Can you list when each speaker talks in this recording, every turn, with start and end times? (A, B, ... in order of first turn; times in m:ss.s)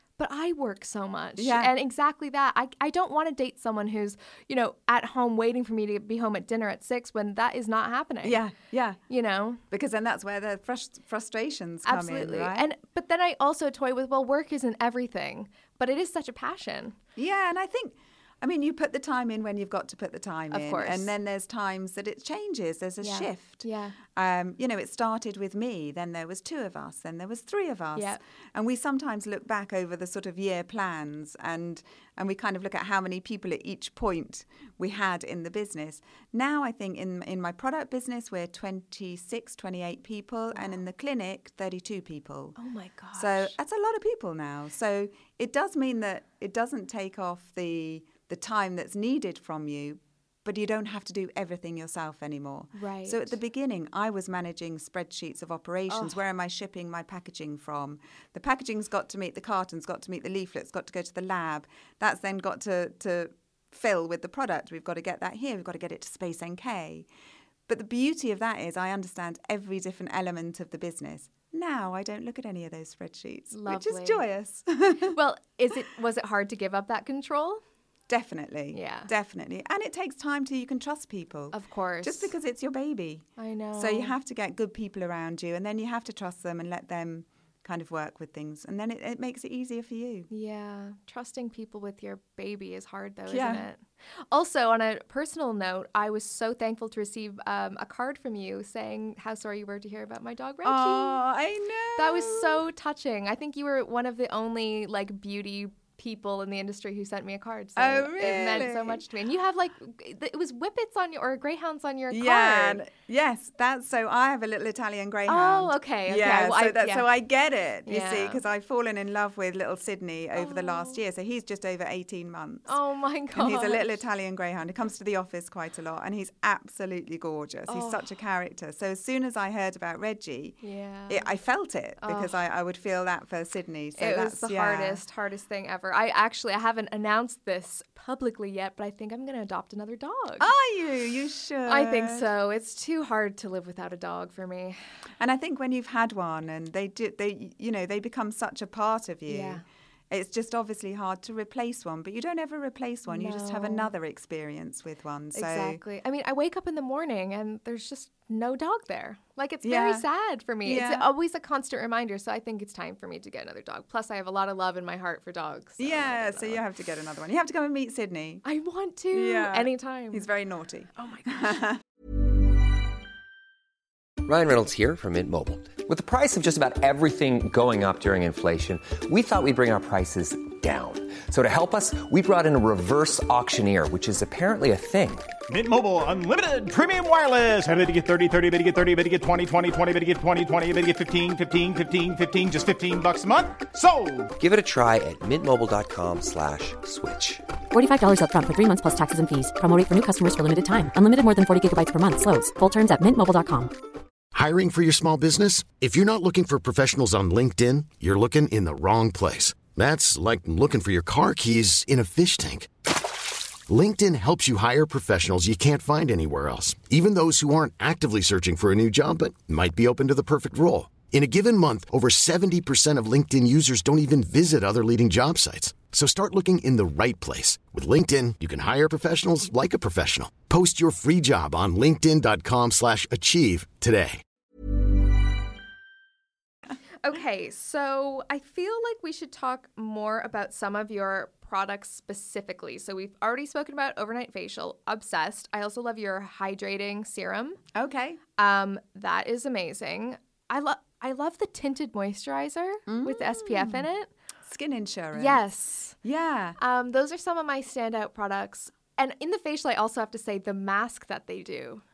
0:00.2-0:08.4 A
0:01.4-0:01.7 B
0:08.2-0:09.0 B
0:09.1-0:09.6 A
0:09.7-0:12.7 B
0:11.8-0:17.0 A
0:17.2-0:42.6 B
0:20.5-0:21.1 A
0:23.0-0:24.0 A
0:42.6-0:43.5 A
0:43.1-1:07.1 B
0:52.8-0:53.3 A
0:55.9-0:56.2 A
1:07.7-1:15.1 B
1:13.5-1:14.2 A
1:15.1-1:17.6 A
1:18.1-1:30.3 B
1:18.7-1:19.1 A
1:21.5-1:22.3 A
1:23.4-1:24.1 A
1:30.3-1:41.2 A
1:33.3-1:33.6 B
1:40.6-1:42.6 B
1:42.0-1:52.8 A
1:47.8-1:49.0 B
1:52.1-2:02.8 B
1:55.3-1:57.1 A
1:57.9-1:58.4 A
2:00.4-2:01.0 A
2:02.7-2:04.0 A
2:03.3-2:15.0 B
2:07.7-2:08.1 A
2:10.6-2:11.3 A
2:12.0-2:12.3 A
2:14.0-2:20.5 A
2:20.4-2:22.2 B
2:21.6-2:24.8 A
2:25.2-2:35.8 B
2:29.3-2:29.6 A
2:33.1-2:33.9 A
2:35.3-2:46.6 A
2:39.6-2:40.0 B
2:40.6-2:41.1 B
2:45.8-2:48.4 B
2:48.4-2:50.3 A
2:49.1-2:51.8 B
2:51.0-2:51.6 A
2:54.2-3:05.3 C
3:05.5-3:14.3 D
3:14.4-3:17.5 C
3:17.7-3:23.7 E
3:24.3-3:54.2 F
3:57.0-4:07.6 A
4:07.8-4:08.2 B
4:08.4-4:14.1 A
4:12.9-4:13.9 B
4:14.4-4:15.4 B
4:15.1-4:16.0 A
4:16.0-4:16.6 B
4:16.6-4:21.8 A